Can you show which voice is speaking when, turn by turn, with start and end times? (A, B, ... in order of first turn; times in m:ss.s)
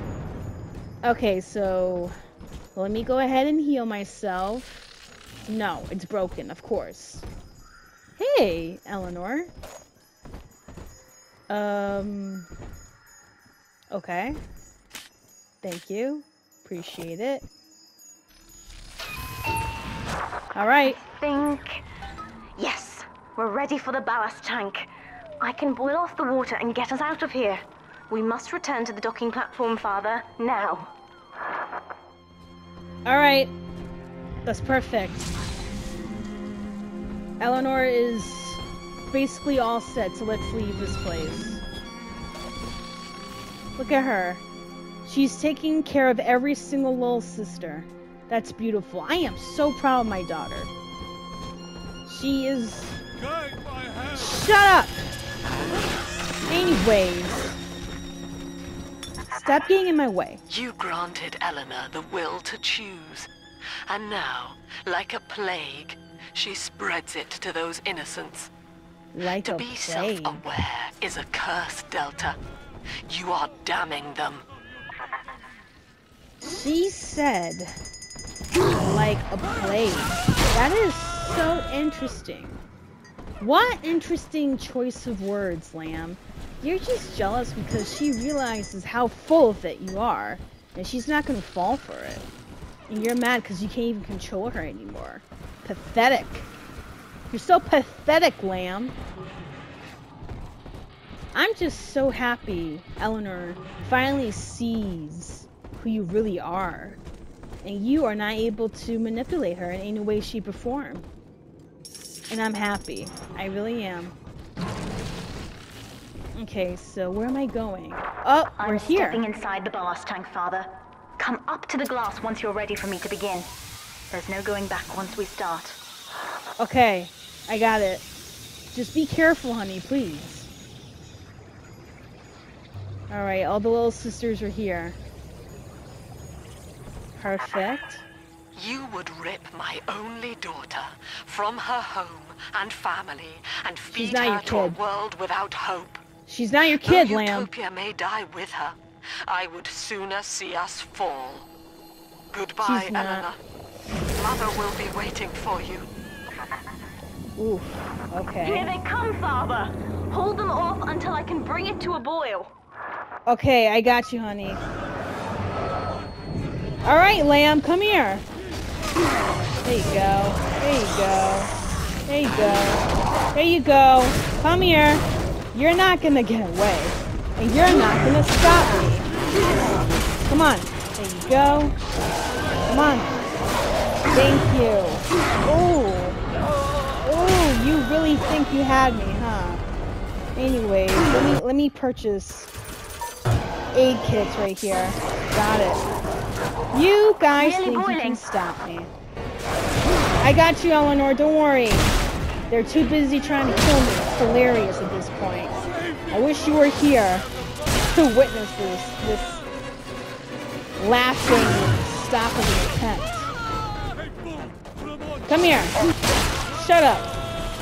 0:01.0-0:02.1 A
0:02.7-0:04.8 A
0:05.5-0:07.3 A
0:08.2-0:09.5 A
0:11.5-0:12.5 A
0:13.9-0:14.4 A
0:15.6-0:17.5 A
0:20.5-0:21.0 A
0:20.8-0:21.8 B
0:22.6-0:24.9 B
0:25.4-0:30.9 B
0:33.0-0:33.5 A
0:34.4-0:35.3 A
0:37.4-0:41.6 A
0:43.8-0:44.4 A
0:45.0-0:50.7 A
0:52.0-0:53.0 A
0:54.1-0:55.1 A
0:56.5-0:57.5 A
0:59.3-1:00.4 A
1:00.5-1:03.3 C
1:03.9-1:08.5 C
1:09.1-1:10.5 A
1:09.2-1:12.4 C
1:13.1-1:14.4 C
1:16.4-1:17.7 A
1:18.8-1:22.6 A
1:23.4-1:32.3 A
1:32.9-1:36.5 A
1:37.3-1:39.0 A
1:41.3-1:47.0 A
1:47.6-1:51.0 A
1:52.3-1:54.2 A
1:56.4-1:59.2 A
1:58.6-2:03.5 B
2:04.1-2:05.8 B
2:06.6-2:08.0 A
2:08.7-2:10.5 A
2:13.1-2:15.0 A
2:17.2-2:18.0 A
2:18.5-2:26.0 C
2:23.9-2:24.8 A
2:26.3-2:27.5 A
2:26.8-2:28.8 C
2:29.3-2:31.5 C
2:32.3-2:33.4 C
2:32.6-2:33.3 A
2:34.2-2:35.9 C
2:37.4-2:38.8 A
2:38.4-2:42.5 B
2:43.3-2:44.6 A
2:46.8-2:48.2 A
2:49.6-2:51.5 A
2:52.1-2:59.1 A
3:00.2-3:01.8 A
3:02.7-3:03.2 A
3:04.1-3:06.2 A
3:07.0-3:09.6 A
3:10.3-3:12.5 A
3:13.7-3:15.8 A
3:16.7-3:18.9 A
3:17.4-3:18.2 B
3:20.2-3:21.9 A
3:22.5-3:27.3 A
3:27.9-3:29.4 A
3:30.8-3:33.3 A
3:35.2-3:35.8 A
3:36.5-3:37.1 A